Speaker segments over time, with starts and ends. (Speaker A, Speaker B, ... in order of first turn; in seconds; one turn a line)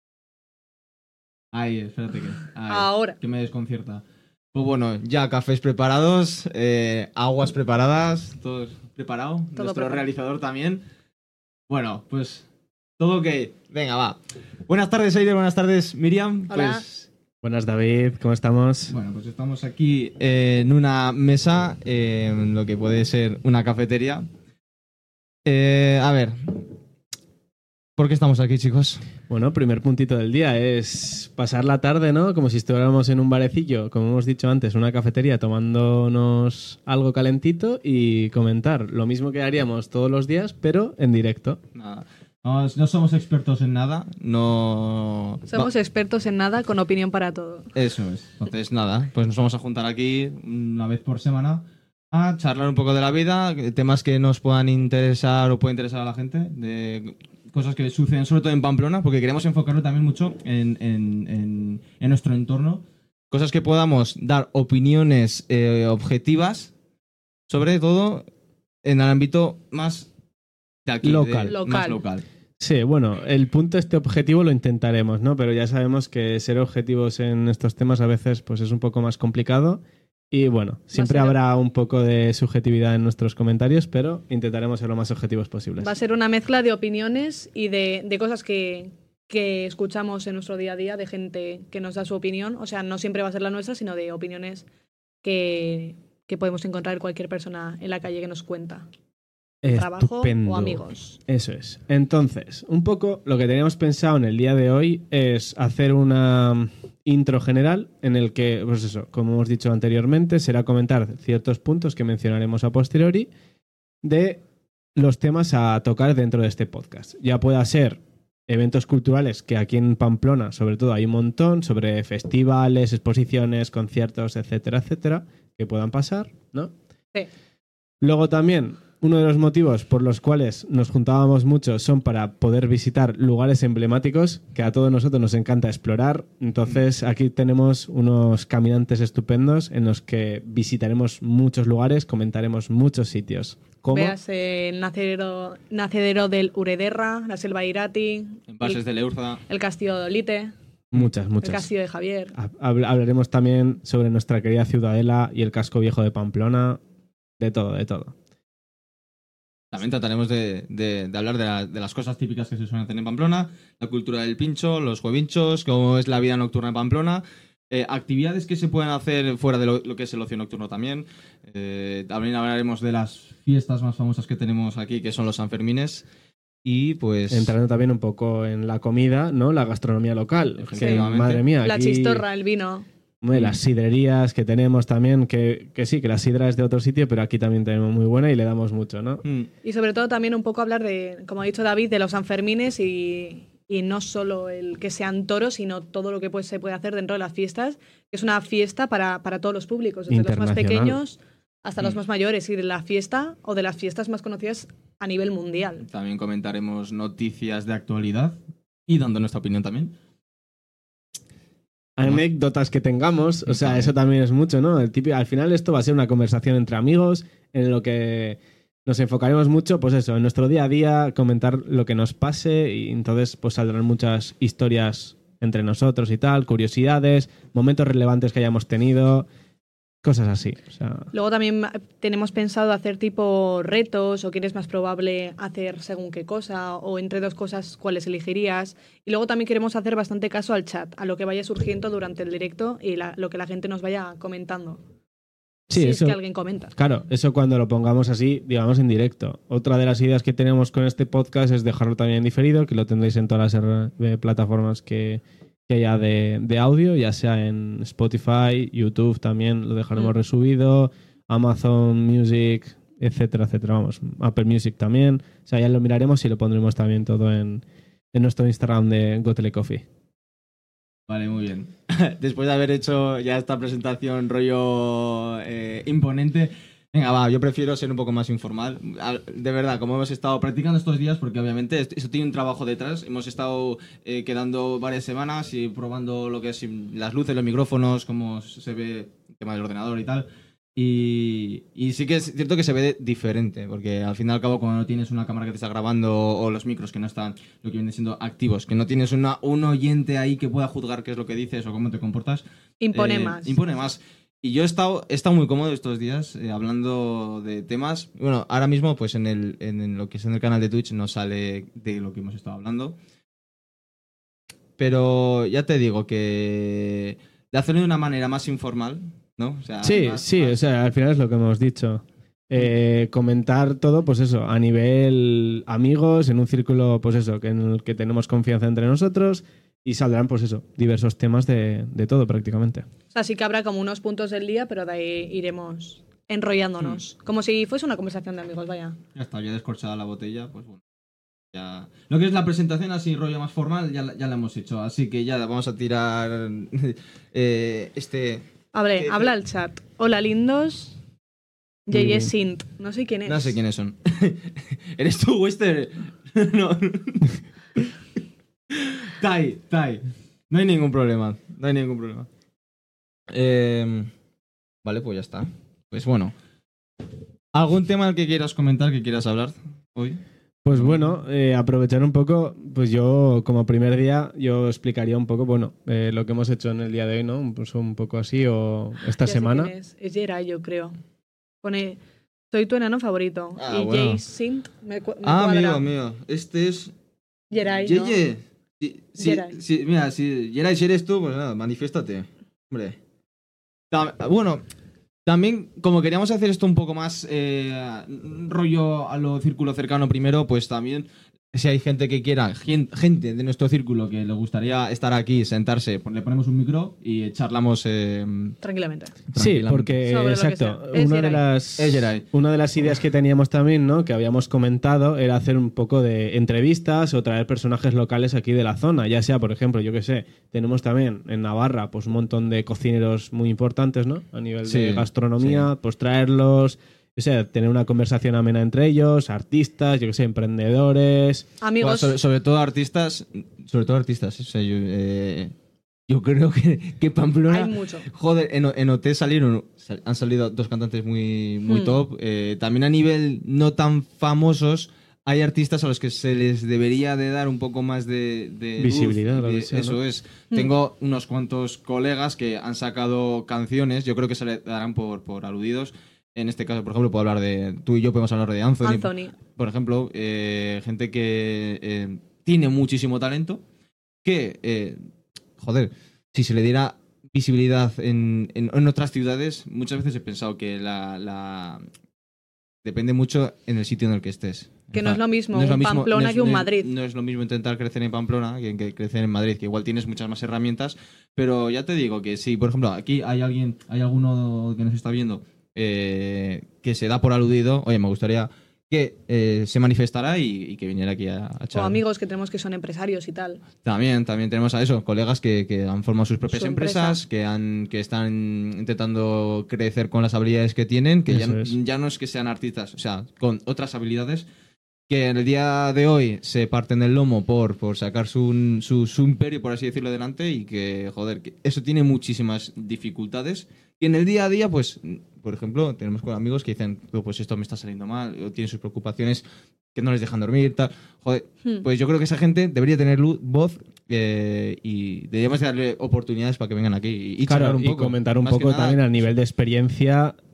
Speaker A: 1.5-10.8
Speaker B: 2.7-3.2
Speaker B: 9.6-10.0
Speaker A: 11.7-12.5
Speaker A: 13.0-17.1
Speaker B: 16.5-16.8
Speaker C: 17.4-18.9
Speaker A: 18.9-24.3
Speaker A: 25.5-26.7
Speaker A: 28.0-29.0
Speaker C: 29.3-41.6
Speaker A: 41.8-45.7
Speaker B: 45.5-47.7
Speaker A: 47.7-66.7
Speaker A: 67.5-68.3
Speaker A: 68.8-70.1
Speaker A: 70.9-72.2
Speaker C: 71.0-71.5
Speaker B: 71.5-72.0
Speaker C: 72.6-85.9
Speaker B: 80.9-81.4
Speaker B: 85.8-94.7
Speaker B: 95.2-98.9
Speaker C: 99.6-113.3
Speaker B: 99.7-101.2
Speaker C: 114.0-114.4
Speaker C: 115.0-126.7
Speaker C: 128.0-144.2
Speaker B: 143.9-148.8
Speaker A: 148.5-149.4
Speaker B: 149.5-150.5
Speaker C: 150.9-151.7
Speaker B: 151.4-152.3
Speaker C: 152.4-156.8
Speaker C: 157.4-158.1
Speaker A: 159.7-176.1
Speaker A: 176.6-177.5
Speaker C: 177.3-182.2
Speaker A: 180.6-181.4
Speaker B: 180.8-181.1
Speaker B: 181.6-182.9
Speaker C: 183.2-189.2
Speaker A: 189.2-189.5
Speaker B: 189.6-205.9
Speaker C: 200.1-201.0
Speaker A: 205.9-209.9
Speaker C: 212.0-229.3
Speaker A: 213.5-213.9
Speaker C: 230.0-231.1
Speaker B: 231.1-244.8
Speaker C: 245.7-246.2
Speaker B: 245.7-246.7
Speaker C: 246.8-269.9
Speaker A: 271.1-313.0
Speaker B: 302.8-303.6
Speaker A: 314.8-320.6
Speaker C: 319.8-332.9
Speaker B: 333.1-339.0
Speaker A: 339.1-340.8
Speaker A: 341.5-348.4
Speaker B: 348.7-351.0
Speaker A: 349.0-349.3
Speaker B: 351.9-353.6
Speaker C: 351.9-352.3
Speaker A: 353.3-357.4
Speaker A: 358.7-362.3
Speaker A: 363.3-364.1
Speaker A: 364.8-366.3
Speaker A: 367.5-370.2
Speaker C: 370.6-379.7
Speaker A: 370.7-371.1
Speaker B: 379.2-380.9
Speaker B: 381.6-382.0
Speaker B: 382.5-385.8
Speaker A: 383.6-384.2
Speaker A: 385.2-386.9
Speaker B: 387.5-388.2
Speaker A: 387.7-393.0
Speaker B: 389.2-389.6
Speaker A: 393.9-394.6
Speaker A: 395.3-408.6
Speaker B: 408.6-409.2
Speaker A: 409.3-410.0
Speaker C: 409.4-431.5
Speaker B: 410.1-411.4
Speaker A: 411.8-412.2
Speaker A: 424.6-425.7
Speaker B: 431.6-432.2
Speaker A: 431.8-435.5
Speaker A: 436.1-463.6
Speaker B: 437.5-438.1
Speaker B: 441.7-442.0
Speaker C: 448.8-450.0
Speaker B: 458.8-459.4
Speaker A: 464.2-465.0
Speaker A: 465.6-471.9
Speaker A: 472.8-492.0
Speaker B: 474.9-476.9
Speaker B: 491.8-493.6
Speaker A: 493.8-504.5
Speaker B: 496.5-497.2
Speaker C: 501.3-501.7
Speaker A: 505.1-519.4
Speaker A: 520.0-529.0
Speaker C: 527.5-530.4